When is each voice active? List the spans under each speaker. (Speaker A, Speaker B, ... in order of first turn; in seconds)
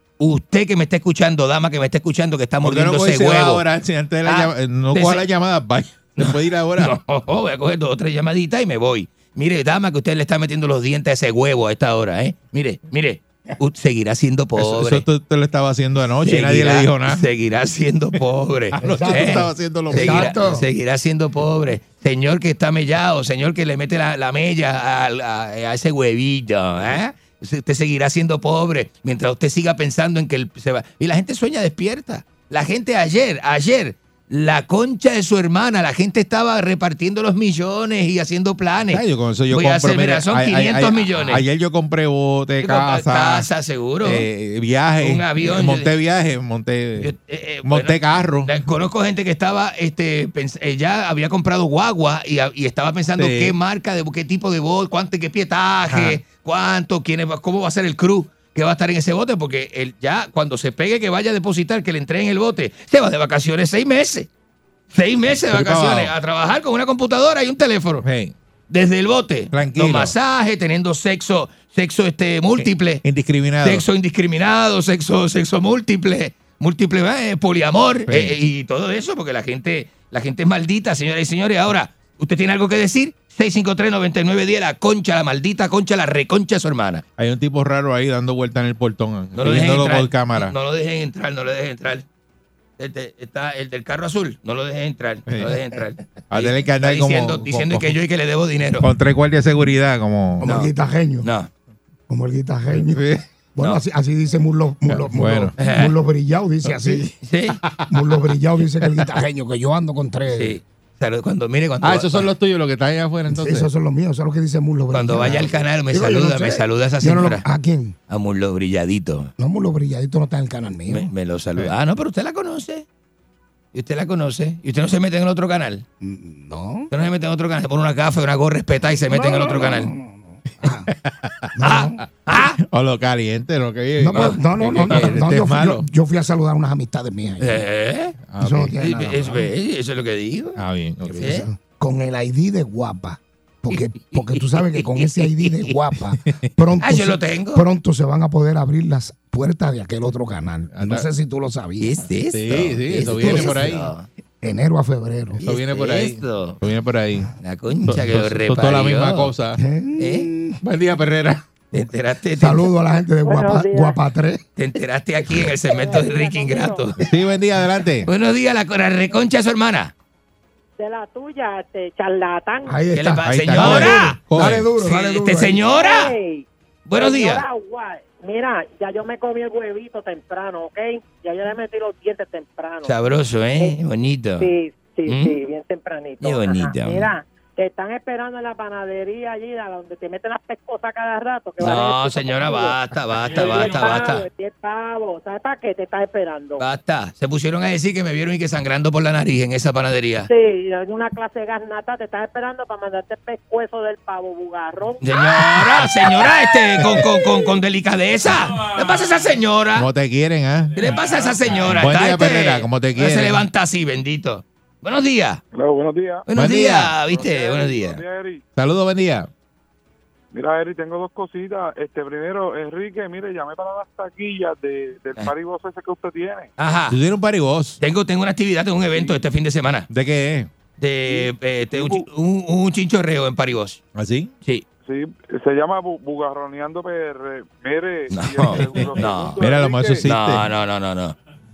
Speaker A: 0.2-3.6, 4.2-5.3, 6.2-15.0, 16.2-41.4, 42.6-44.3, 45.0-45.9, 47.0-64.3, 64.9-68.0, 68.7-73.0, 73.6-87.0, 89.3-92.0, 92.8-98.9, 100.4-101.5, 105.6-105.9, 107.1-107.6, 110.3-112.3, 114.9-117.5, 118.1-119.3, 120.9-122.9, 123.7-125.8, 126.9-129.9, 131.6-132.6, 134.1-135.2, 137.4-138.3, 138.8-141.5, 143.7-145.7, 146.8-147.7, 151.8-154.1, 155.4-156.6, 157.4-159.3, 160.0-160.3, 161.7-162.7, 164.6-167.0, 168.1-169.9, 172.9-176.2, 176.9-177.4, 182.8-184.5, 185.1-185.4, 186.2-187.1, 191.6-194.3, 196.6-200.3, 205.0-209.9, 210.8-215.4, 216.3-218.0, 226.6-227.0, 227.8-229.9, 230.8-233.8, 238.1-241.2
Speaker B: 2.6-7.0, 14.6-17.2, 18.7-20.6, 38.9-43.5, 44.0-47.1, 47.6-48.5, 53.2-53.6, 55.9-56.2, 65.5-66.1, 68.0-68.3, 69.5-70.2, 72.6-73.8, 78.1-78.4, 87.2-90.5, 95.3-97.9, 98.8-100.5, 102.7-103.2, 104.9-105.5, 106.7-107.0, 107.7-108.1, 111.8-113.7, 130.7-131.6, 132.6-135.9, 138.3-138.8, 140.6-141.4, 150.7-151.1, 152.3-153.9, 155.4-157.3, 157.9-159.6, 160.6-161.4, 167.0-168.1, 173.2-174.7, 209.8-210.8, 211.6-213.4, 216.3-216.9, 218.5-219.3, 226.9-227.8, 229.9-230.5, 233.9-234.3, 238.4-240.5
Speaker C: 18.8-20.6, 100.4-101.3, 102.1-103.0, 103.6-107.0, 107.9-110.6, 113.3-118.0, 119.4-121.0, 126.0-126.9, 129.1-130.9, 131.6-131.9, 134.0-137.6, 138.4-139.4, 141.2-152.0, 153.2-153.6, 154.4-155.4, 159.6-160.6, 162.4-164.4, 172.7-175.6
Speaker D: 163.2-164.0, 165.7-166.9, 170.8-172.8, 175.7-183.0, 184.4-196.7, 200.3-205.1
Speaker E: 217.1-218.4, 220.4-226.4, 234.9-240.0